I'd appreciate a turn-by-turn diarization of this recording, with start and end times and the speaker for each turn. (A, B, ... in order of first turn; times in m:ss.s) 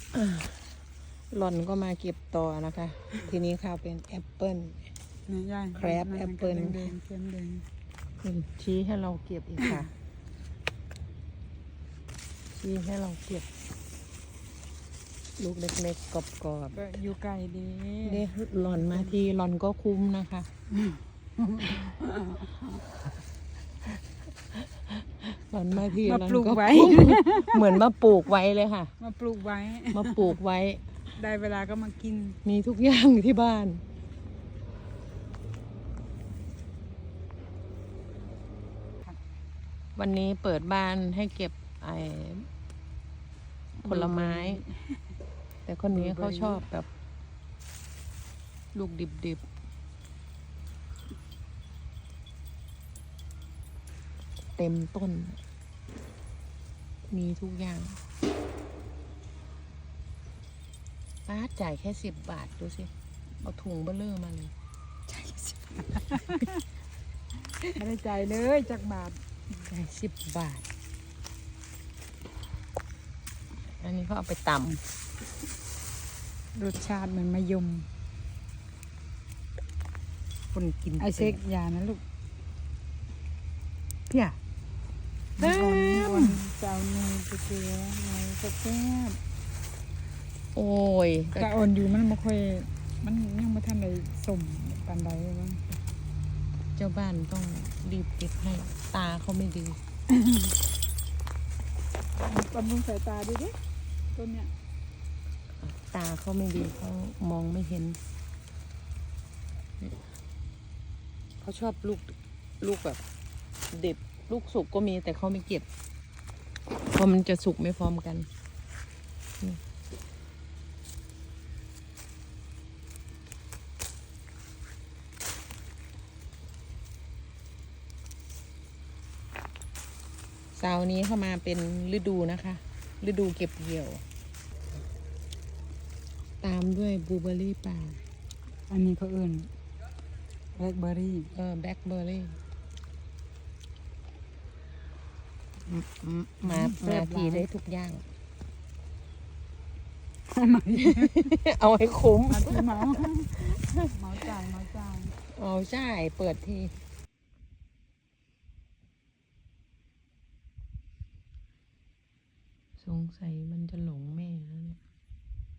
0:00.1-0:00.7 A
0:01.3-0:04.9 A
0:05.3-0:07.6 B
0:05.8-0:06.9 A
0:08.2-0:09.9 A
0:12.6-0:13.5 A
0:15.4-0:16.9 A
0:16.7-0:19.2 B
0:18.0-0:20.5 A
0:20.8-0:22.8 B
0:24.5-0:28.9 A
0:26.0-0:27.6 B
0:29.0-0:30.4 B
0:29.9-0:30.8 A
0:31.2-0:32.4 B
0:32.4-0:33.8 A
0:40.0-0:42.5 A
0:43.8-0:45.0 B
0:43.8-0:44.6 A
0:45.7-0:46.9 A
0:45.9-0:46.6 B
0:48.7-0:49.4 A
0:54.6-0:55.4 A
0:57.1-0:58.0 A
1:01.3-1:04.5 A
1:05.1-1:06.6 B
1:07.8-1:09.2 B
1:09.6-1:10.7 A
1:13.8-1:14.8 A
1:16.6-1:17.9 B
1:20.5-1:21.4 A
1:21.0-1:22.0 B
1:24.1-1:24.4 A
1:25.4-1:26.4 A
1:25.4-1:29.2 B
1:30.6-1:31.5 A
1:31.4-1:35.6 B
1:36.8-1:39.8 A
1:40.1-1:40.6 B
1:42.2-1:43.6 B
1:44.1-1:44.5 B
1:45.6-1:48.0 A
1:51.4-1:53.0 A
1:53.7-1:55.7 A
1:56.9-1:58.3 A
2:10.5-2:14.0 A
2:16.4-2:18.0 A
2:18.7-2:19.5 B
2:20.6-2:21.3 B
2:21.3-2:22.4 A
2:25.7-2:28.0 A
2:26.4-2:27.5 B
2:30.3-2:31.3 B
2:30.8-2:33.9 A
2:32.3-2:33.4 B
2:33.9-2:35.2 B
2:35.3-2:36.8 A
2:42.8-2:44.8 A